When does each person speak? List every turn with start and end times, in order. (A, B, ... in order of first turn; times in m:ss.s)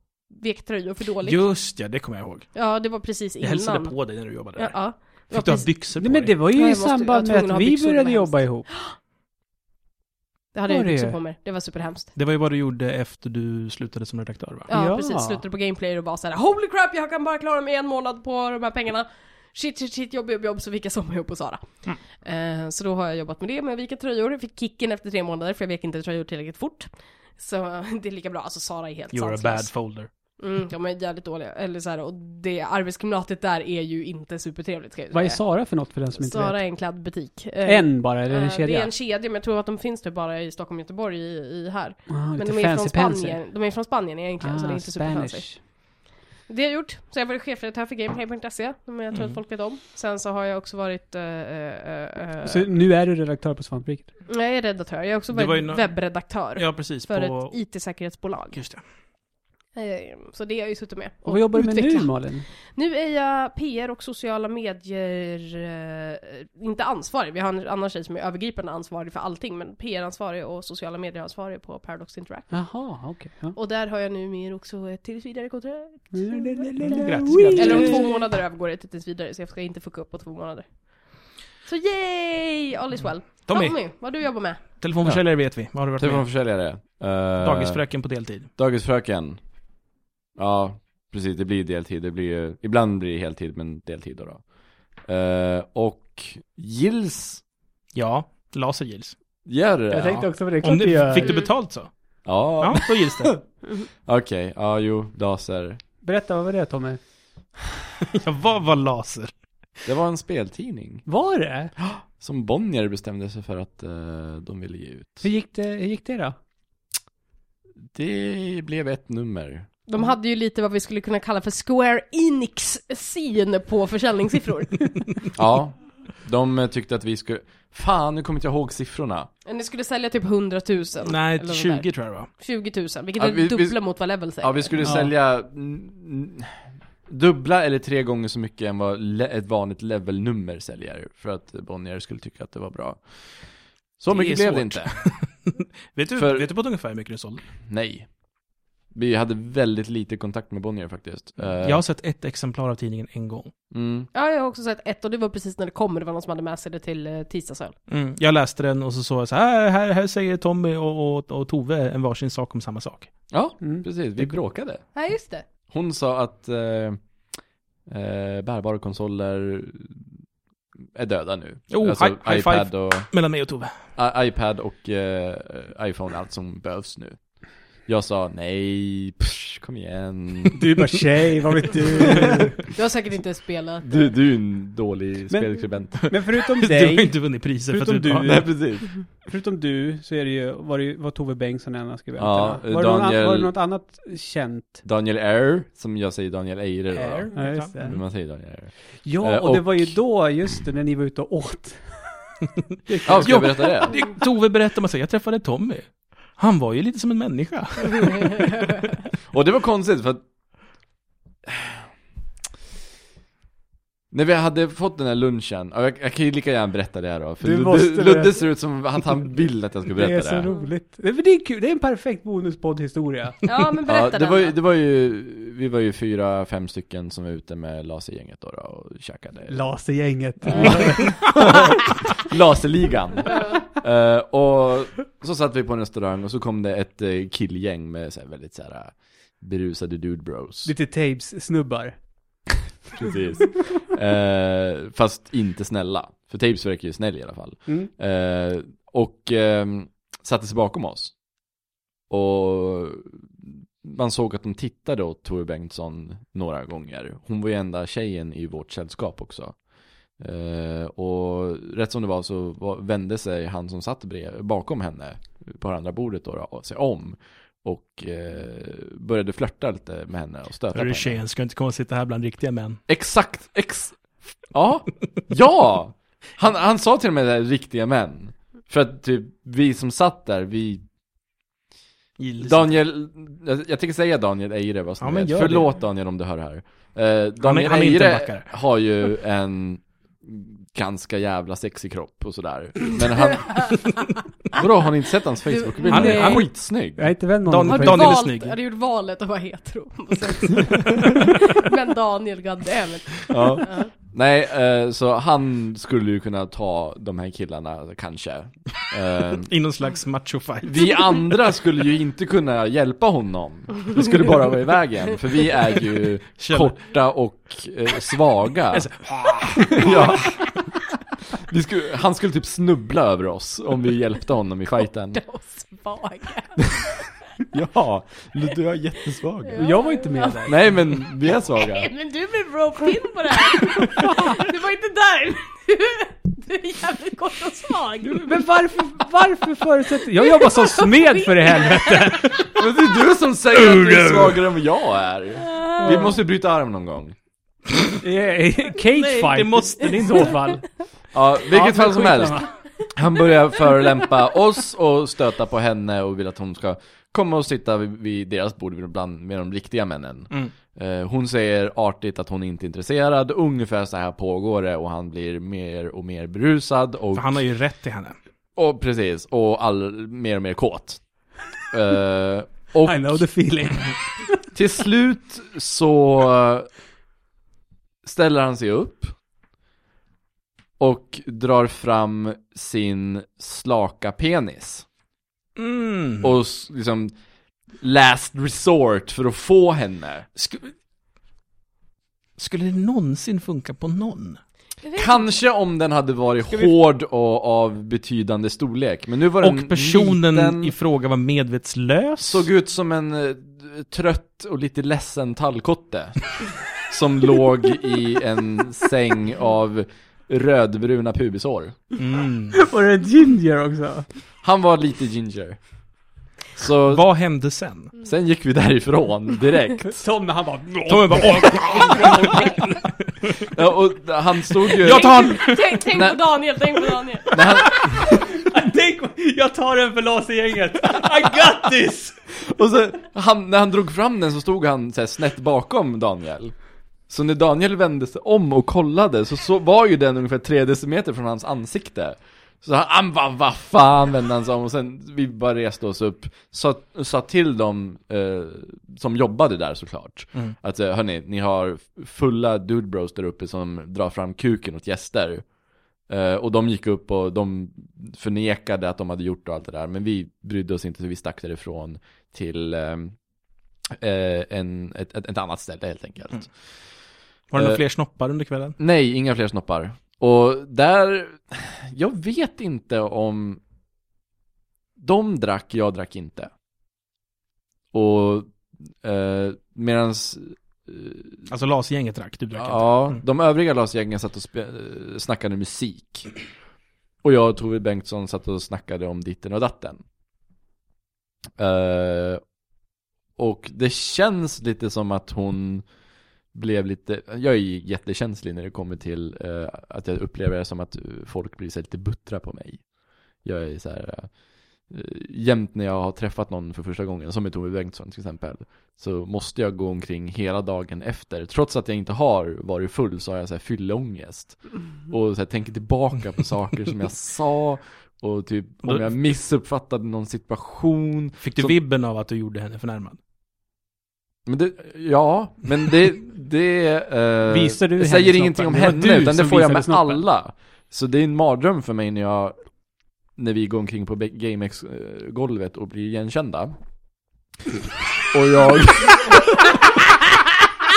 0:00.3-0:01.4 A
0:01.2-0:02.5 B
0:02.6-0:04.0 A
0:03.4-0:04.8 B
0:04.6-0:05.7 A
0:05.3-0:06.4 B
0:06.0-0:08.7 C
0:06.5-0:09.0 A
0:10.5-0:12.1 A
0:10.7-0:11.2 C
0:12.2-0:14.7 B
0:14.7-0:21.6 A
0:14.7-0:15.4 C
0:22.2-0:29.8 A
0:29.1-0:30.1 B
0:30.4-0:35.5 A
0:35.1-0:36.6 C
0:36.2-0:52.6 A
0:37.6-0:38.9 C
0:42.1-0:43.4 C
0:44.4-0:45.6 C
0:49.1-0:49.4 B
0:52.4-0:54.1 C
0:54.3-0:58.6 A
0:55.3-0:57.6 B
0:58.5-0:58.8 B
0:59.8-1:02.2 A
1:01.3-1:02.5 C
1:02.7-1:12.7 A
1:12.5-1:13.6 C
1:13.5-1:17.0 A
1:16.1-1:18.1 C
1:16.9-1:18.1 B
1:17.6-1:24.7 A
1:23.2-1:23.8 B
1:24.6-1:26.3 B
1:25.0-1:25.3 D
1:26.0-1:27.8 D
1:27.4-1:28.5 B
1:28.6-1:29.4 D
1:30.4-1:34.4 D
1:35.0-1:37.4 D
1:37.9-1:39.2 B
1:39.5-1:40.3 D
1:39.9-1:41.4 C
1:40.6-1:41.9 B
1:41.2-1:41.5 A
1:42.2-1:43.4 D
1:42.6-1:43.4 B
1:44.0-1:45.8 D
1:46.0-1:47.0 C
1:48.2-1:49.3 B
1:49.9-1:51.1 D
1:51.1-1:51.7 C
1:51.8-1:55.2 D
1:55.2-1:56.4 C
1:57.9-1:59.7 D
1:59.9-2:05.2 A
2:05.4-2:09.3 D
2:09.5-2:14.7 A
2:11.0-2:12.3 B
2:13.2-2:13.8 D
2:14.4-2:23.1 D
2:14.8-2:15.1 C
2:24.0-2:25.0 D
2:24.1-2:27.4 B
2:26.2-2:26.5 D
2:27.7-2:28.1 D
2:28.9-2:31.8 D
2:31.6-2:33.5 B
2:33.7-2:34.1 D
2:34.1-2:37.8 A
2:37.9-2:43.1 B
2:43.3-2:44.8 D
2:43.6-2:43.9 C
2:45.0-2:45.5 A
2:45.7-2:47.0 D
2:47.9-2:50.0 D
2:51.0-2:53.1 D
2:51.7-2:53.7 B
2:54.0-3:00.6 D
3:00.5-3:02.6 C
3:02.1-3:02.4 D
3:02.7-3:04.0 A
3:03.8-3:06.0 D
3:05.3-3:14.8 C
3:06.3-3:08.4 B
3:08.2-3:09.0 D
3:12.2-3:13.5 D
3:14.8-3:20.0 D
3:16.9-3:18.0 B
3:17.3-3:18.0 C
3:19.0-3:22.2 C
3:22.9-3:23.7 C
3:23.0-3:24.0 D
3:23.1-3:28.5 B
3:29.3-3:30.2 D
3:31.5-3:31.8 D
3:34.1-3:40.5 D
3:37.4-3:38.5 C
3:39.9-3:43.4 C
3:43.4-3:44.5 A
3:43.8-3:49.7 D
3:49.5-3:51.3 C
3:50.4-4:00.7 D
4:00.6-4:02.5 C
4:03.0-4:11.2 D
4:12.1-4:19.6 D
4:20.2-4:31.2 D
4:30.7-4:32.8 B
4:32.9-4:40.8 D
4:42.2-4:42.8 B
4:42.4-4:53.8 D
4:45.0-4:45.7 B
4:47.4-4:48.6 B
4:53.4-4:53.8 A
4:54.5-4:57.2 D
4:55.5-4:56.4 A
4:55.9-4:56.5 B
4:57.0-4:58.2 C
4:57.5-4:58.6 B
4:57.7-5:03.9 A
5:03.3-5:09.5 D
5:09.4-5:11.3 B
5:10.6-5:18.9 D
5:16.4-5:16.8 B
5:18.7-5:20.3 B
5:19.6-5:20.5 D
5:21.3-5:25.2 D
5:25.1-5:27.0 A
5:27.5-5:29.7 D
5:29.4-5:30.5 A
5:29.6-5:30.8 C
5:30.5-5:31.9 D
5:31.5-5:38.5 A
5:38.0-5:42.6 C
5:40.2-5:42.3 A
5:42.6-5:47.2 D
5:43.5-5:44.4 C
5:45.6-5:46.0 A
5:45.8-5:46.2 C
5:48.0-5:50.7 C
5:49.0-5:50.4 B
5:51.1-6:07.4 D
5:51.5-5:52.5 C
6:07.2-6:08.2 B
6:08.6-6:11.0 D
6:11.7-6:13.2 D
6:12.8-6:14.3 C
6:14.5-6:16.7 D
6:18.0-6:19.2 D
6:20.8-6:24.9 D
6:25.6-6:26.3 B
6:26.2-6:27.1 D
6:27.8-6:30.3 D
6:30.4-6:30.7 B
6:32.4-6:34.4 B
6:34.8-6:35.3 A
6:35.0-6:40.8 D
6:39.4-6:42.5 B
6:42.2-6:51.8 D
6:52.0-6:52.6 B
6:52.6-6:54.1 C
6:54.4-6:55.6 D
6:56.6-6:57.1 D
6:56.9-6:57.9 B
6:58.0-7:00.0 D
6:59.8-7:02.7 C
7:00.9-7:02.8 B
7:03.4-7:05.3 D
7:04.8-7:05.8 B
7:04.8-7:07.6 A
7:05.9-7:06.2 D
7:07.3-7:08.4 D
7:07.5-7:12.2 C
7:12.4-7:16.5 D
7:17.1-7:35.5 D
7:36.1-7:43.2 D
7:43.9-7:46.5 D
7:47.5-7:48.8 B
7:47.6-7:47.8 D
7:48.8-7:53.6 D
7:55.0-7:56.5 D
7:57.9-8:01.5 D
8:01.5-8:03.2 B
8:02.6-8:06.3 D
8:07.2-8:10.0 D
8:11.6-8:12.4 D
8:13.4-8:15.9 D
8:16.5-8:22.9 D
8:23.4-8:41.8 D
8:38.8-8:39.2 B
8:41.4-8:43.2 B
8:44.5-8:52.6 D
8:47.5-8:50.2 C
8:53.4-8:56.8 D
8:58.3-8:59.8 D